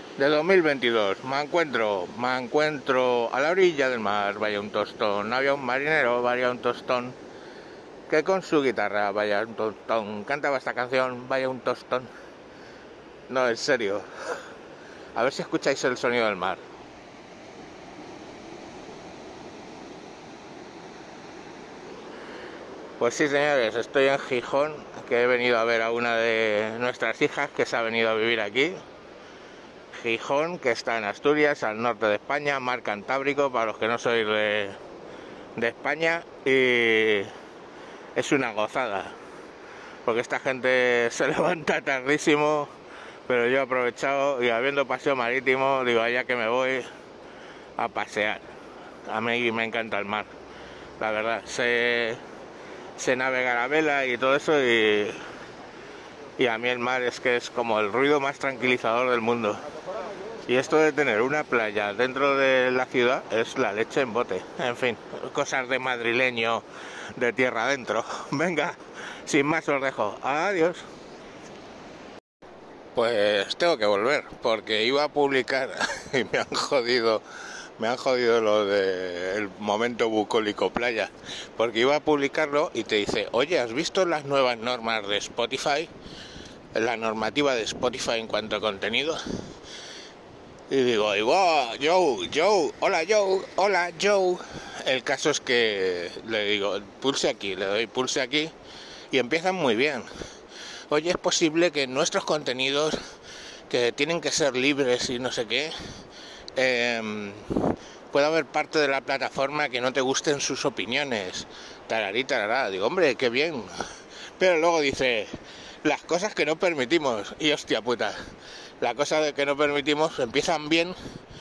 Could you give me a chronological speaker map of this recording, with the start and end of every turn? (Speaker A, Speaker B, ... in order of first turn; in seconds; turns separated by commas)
Speaker A: 0.2-7.2, Speaker A: 8.1-12.1, Speaker A: 13.3-14.1, Speaker A: 15.2-16.6, Speaker A: 23.0-28.8, Speaker A: 29.9-34.8, Speaker A: 35.6-37.3, Speaker A: 38.1-39.1, Speaker A: 40.0-42.7, Speaker A: 43.3-46.9, Speaker A: 47.8-48.5, Speaker A: 49.1-50.3, Speaker A: 51.0-52.2, Speaker A: 53.0-55.2, Speaker A: 56.4-59.6, Speaker A: 60.5-70.8, Speaker A: 73.0-77.2, Speaker A: 77.8-85.9, Speaker A: 86.7-89.2, Speaker A: 90.7-98.5, Speaker A: 99.1-100.1, Speaker A: 100.9-103.0, Speaker A: 103.7-105.7, Speaker A: 106.6-113.8, Speaker A: 114.4-115.3, Speaker A: 115.8-118.2, Speaker A: 118.8-121.0